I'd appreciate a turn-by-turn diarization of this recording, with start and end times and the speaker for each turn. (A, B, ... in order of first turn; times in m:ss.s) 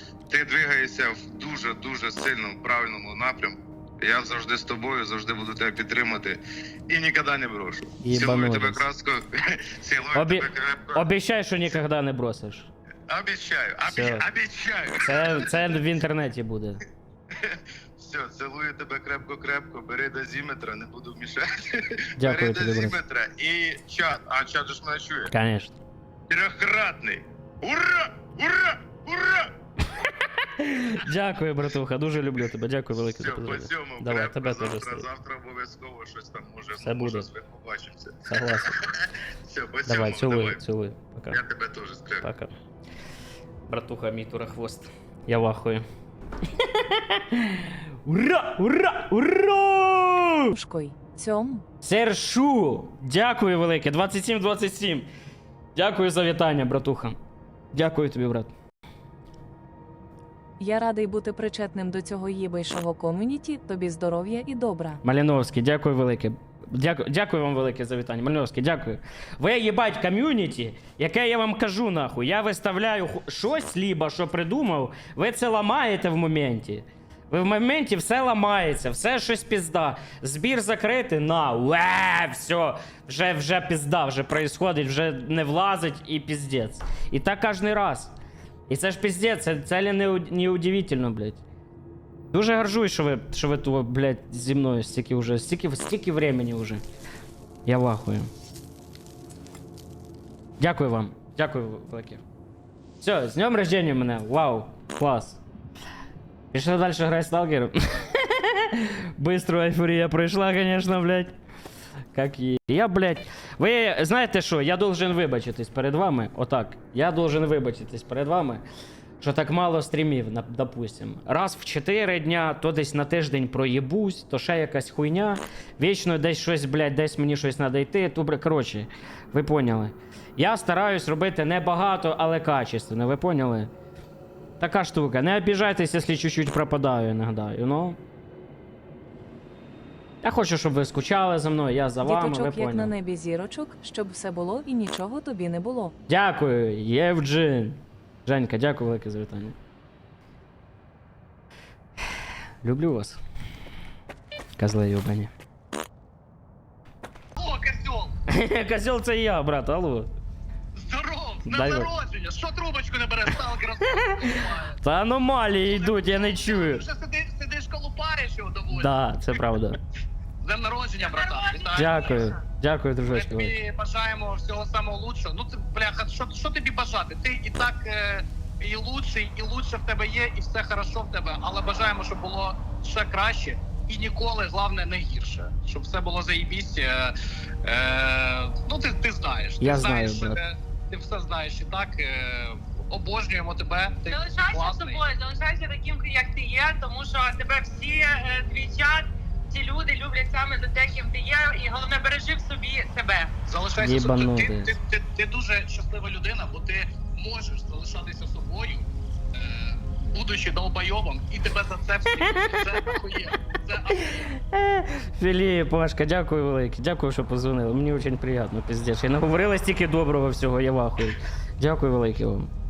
0:00.3-0:11.1 A
0:08.0-0:08.8 B
0:10.1-0:12.7 B
0:13.1-0:15.6 A
0:13.8-0:14.3 B
0:15.0-0:16.8 B
0:17.3-0:25.3 A
0:22.2-0:23.0 B
0:25.3-0:25.8 B
0:26.3-0:29.5 A
0:30.4-0:35.1 B
0:33.0-0:40.6 A
0:36.8-0:37.3 B
0:38.2-0:38.8 B
0:39.9-0:41.4 B
0:41.3-0:42.2 A
0:42.2-0:42.5 B
0:43.7-0:45.8 B
0:46.5-0:50.5 B
0:50.5-0:51.6 C
0:51.8-0:55.1 B
0:55.8-0:57.2 B
0:57.7-0:58.5 B
1:00.6-1:05.0 C
1:05.0-1:28.1 B
1:28.7-1:31.4 B
1:32.3-1:36.8 B
1:37.6-1:38.3 B
1:40.6-1:42.2 B
1:43.0-1:45.4 B
1:46.5-1:51.3 B
1:52.1-1:58.6 B
1:59.2-2:13.7 B
2:14.6-2:18.0 B
2:20.2-2:22.9 B
2:22.0-2:25.9 C
2:26.1-2:29.6 B
2:32.6-2:33.2 B
2:34.6-2:35.3 B
2:37.3-2:38.1 D
2:38.3-2:40.1 B
2:40.8-2:44.7 D
2:41.5-2:41.9 B
2:44.0-2:46.8 B
2:45.6-2:49.4 D
2:48.7-2:49.8 B
2:50.4-2:52.2 D
2:51.0-2:51.7 E
2:51.7-2:53.5 B
2:53.1-3:15.0 D
3:09.6-3:10.4 B
3:14.1-3:23.3 E
3:23.5-3:34.2 D
3:23.8-3:24.7 B
3:33.9-3:42.5 B